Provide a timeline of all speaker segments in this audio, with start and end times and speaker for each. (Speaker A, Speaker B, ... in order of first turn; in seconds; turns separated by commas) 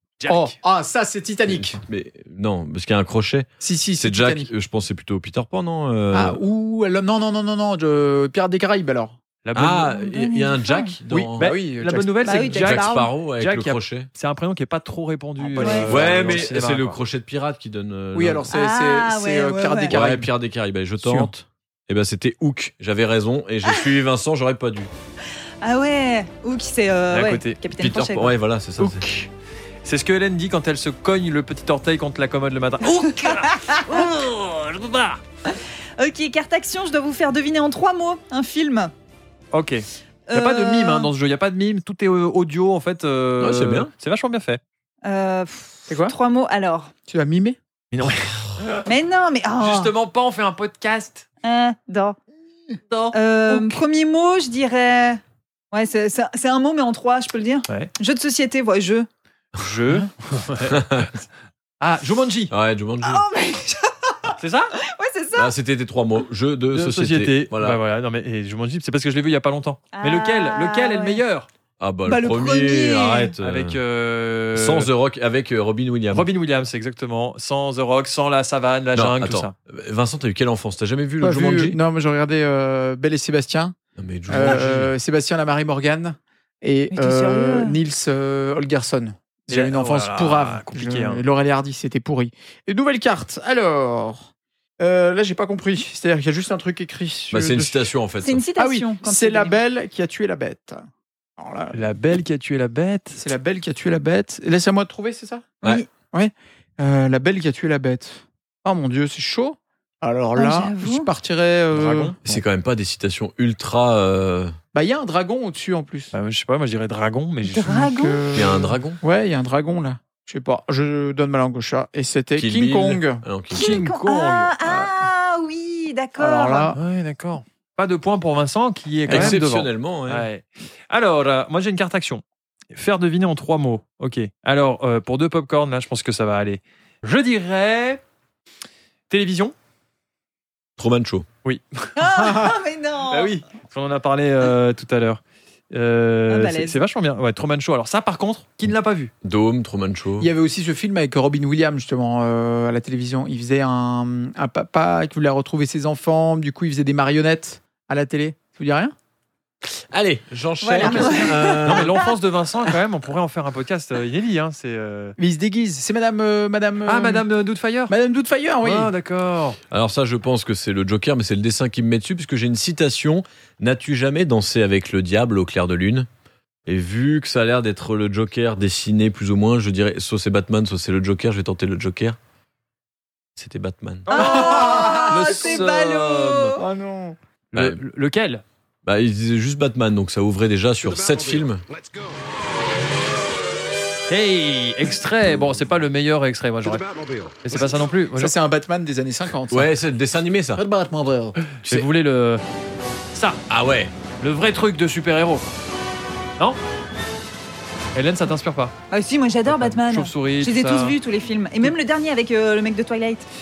Speaker A: 0.2-0.5, Speaker B: 0.3-1.8, Speaker C: 1.5-3.5, Speaker B: 3.6-4.5, Speaker C: 4.0-6.4, Speaker B: 6.1-9.2, Speaker A: 9.4-10.0, Speaker C: 9.6-11.5, Speaker D: 10.0-10.9, Speaker B: 11.1-12.4, Speaker A: 11.4-17.0, Speaker D: 12.2-13.1, Speaker C: 12.5-14.1, Speaker B: 15.4-16.5, Speaker D: 15.6-15.9, Speaker C: 15.9-18.5, Speaker B: 18.1-20.3, Speaker D: 18.5-20.0, Speaker C: 19.9-24.9, Speaker B: 21.0-21.3, Speaker D: 25.6-28.3, Speaker A: 27.1-27.6, Speaker C: 27.7-29.1, Speaker B: 28.8-29.2, Speaker A: 29.8-35.2, Speaker D: 33.2-34.1, Speaker D: 35.5-38.9, Speaker A: 39.5-44.6, Speaker D: 40.3-41.1, Speaker C: 43.4-43.9, Speaker D: 45.0-46.9, Speaker B: 45.9-46.1, Speaker B: 47.1-47.6, Speaker A: 47.9-48.9, Speaker D: 48.9-49.9, Speaker A: 49.6-51.2, Speaker D: 51.4-52.2, Speaker A: 52.9-53.8, Speaker D: 53.1-55.2, Speaker D: 55.7-59.1, Speaker A: 59.5-61.1, Speaker C: 60.6-61.1, Speaker A: 61.8-62.5, Speaker C: 62.5-63.2, Speaker D: 63.0-65.5, Speaker A: 64.4-64.7, Speaker C: 65.3-67.8, Speaker A: 66.7-71.5, Speaker D: 69.9-71.2, Speaker C: 71.8-73.8, Speaker D: 72.1-73.3, Speaker A: 73.4-74.9, Speaker C: 74.5-76.3, Speaker A: 76.1-79.5, Speaker C: 78.9-81.8, Speaker B: 81.2-83.8, Speaker C: 84.0-84.9, Speaker B: 84.3-94.3, Speaker D: 86.9-87.8, Speaker A: 89.5-91.2, Speaker B: 94.8-97.9, Speaker C: 97.3-98.4, Speaker D: 98.2-99.6, Speaker B: 98.6-100.8, Speaker B: 101.4-101.8, Speaker A: 101.7-103.3, Speaker B: 103.2-105.6, Speaker B: 106.1-112.2, Speaker D: 110.4-111.1, Speaker A: 111.7-112.3, Speaker C: 112.2-114.6, Speaker B: 114.7-116.1, Speaker A: 116.1-117.9, Speaker D: 117.5-118.2, Speaker B: 117.6-123.2, Speaker C: 118.3-119.0, Speaker C: 122.4-123.8, Speaker A: 123.5-124.5, Speaker D: 123.5-126.7, Speaker B: 124.6-125.1, Speaker B: 126.2-126.8, Speaker A: 126.8-138.0, Speaker B: 129.1-129.4, Speaker C: 129.1-130.3, Speaker A: 139.1-139.5, Speaker C: 140.8-141.3, Speaker A: 141.4-142.5, Speaker D: 141.9-143.4, Speaker A: 143.1-149.1, Speaker D: 146.3-146.8, Speaker C: 149.2-150.3, Speaker B: 150.2-158.9, Speaker C: 159.9-162.0, Speaker D: 160.6-162.1, Speaker B: 160.8-161.3, Speaker A: 160.9-165.2, Speaker B: 165.2-167.2, Speaker A: 166.9-167.9, Speaker B: 167.9-168.9, Speaker A: 168.6-169.6, Speaker C: 169.7-176.1, Speaker C: 176.7-182.2, Speaker C: 183.4-184.2, Speaker A: 184.1-186.6, Speaker D: 184.1-186.6, Speaker B: 184.1-185.4, Speaker C: 185.4-185.8, Speaker B: 186.6-187.2, Speaker C: 187.5-187.8, Speaker A: 187.5-188.4, Speaker C: 188.8-191.6, Speaker A: 194.1-198.4, Speaker B: 197.5-199.7, Speaker C: 199.5-200.6, Speaker B: 200.6-201.3, Speaker A: 201.5-202.4, Speaker A: 203.1-203.4, Speaker C: 203.5-203.9, Speaker A: 204.2-205.5, Speaker A: 207.9-208.7, Speaker D: 208.9-213.3, Speaker A: 209.4-211.0